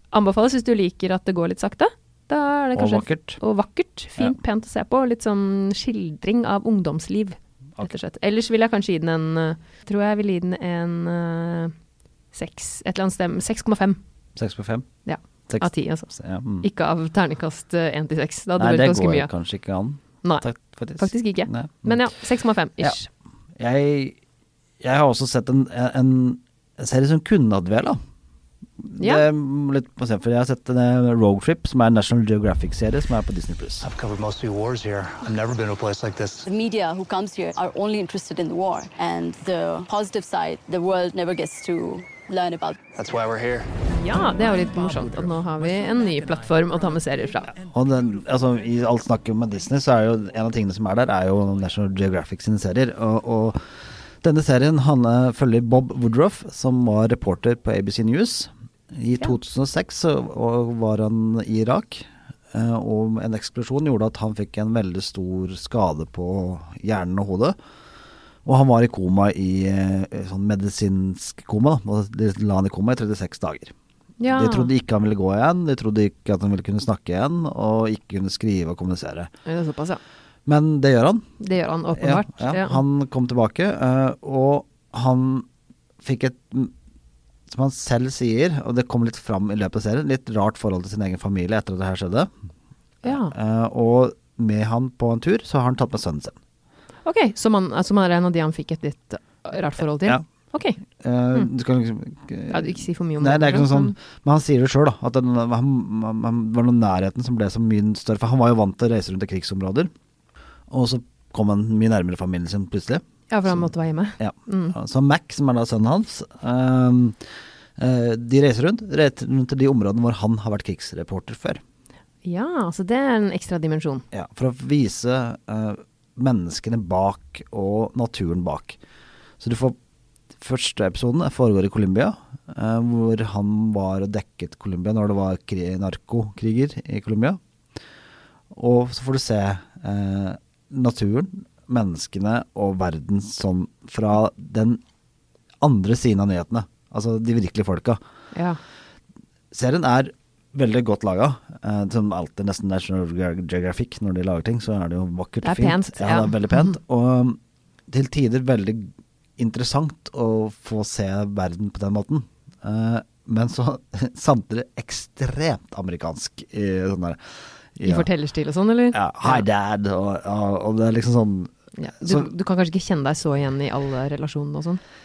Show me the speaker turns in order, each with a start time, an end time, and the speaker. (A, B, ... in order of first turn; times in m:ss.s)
0:00.1-0:11.7 A
0:02.7-0:03.4 B
0:12.3-0:14.0 A
0:14.4-0:14.8 B
0:15.0-0:19.3 A
0:15.5-0:16.7 B
0:18.6-0:22.0 B
0:21.0-0:23.1 A
0:23.6-0:24.2 B
0:24.8-0:28.0 B
0:28.8-0:33.9 B
0:29.0-0:29.2 A
0:33.8-0:36.4 C
0:36.4-0:42.8 D
0:42.9-0:43.8 C
0:43.9-0:47.5 A
0:44.3-0:45.7 C
0:47.7-0:53.6 B
0:54.2-1:07.5 B
1:08.4-1:13.7 B
1:14.2-1:14.7 A
1:14.3-1:19.3 B
1:19.4-1:20.0 A
1:20.4-1:21.3 B
1:21.4-1:22.8 A
1:21.9-1:25.5 B
1:26.0-1:26.7 B
1:27.5-1:32.3 B
1:33.0-1:33.3 A
1:33.1-1:36.4 B
1:37.0-1:40.8 A
1:39.8-1:40.2 B
1:41.0-1:49.9 B
1:42.5-1:43.9 A
1:50.7-1:57.2 B
1:53.3-1:54.7 A
1:57.8-2:01.6 B
2:02.2-2:04.0 A
2:04.1-2:08.8 B
2:09.4-2:09.8 B
2:10.4-2:17.4 B
2:18.5-2:24.8 B
2:25.6-2:28.0 B
2:28.3-2:28.6 A
2:29.5-2:47.2 B
2:35.4-2:36.6 A
2:47.8-2:48.1 B
2:47.8-2:49.4 A
2:48.9-2:52.3 B
2:51.8-2:54.8 A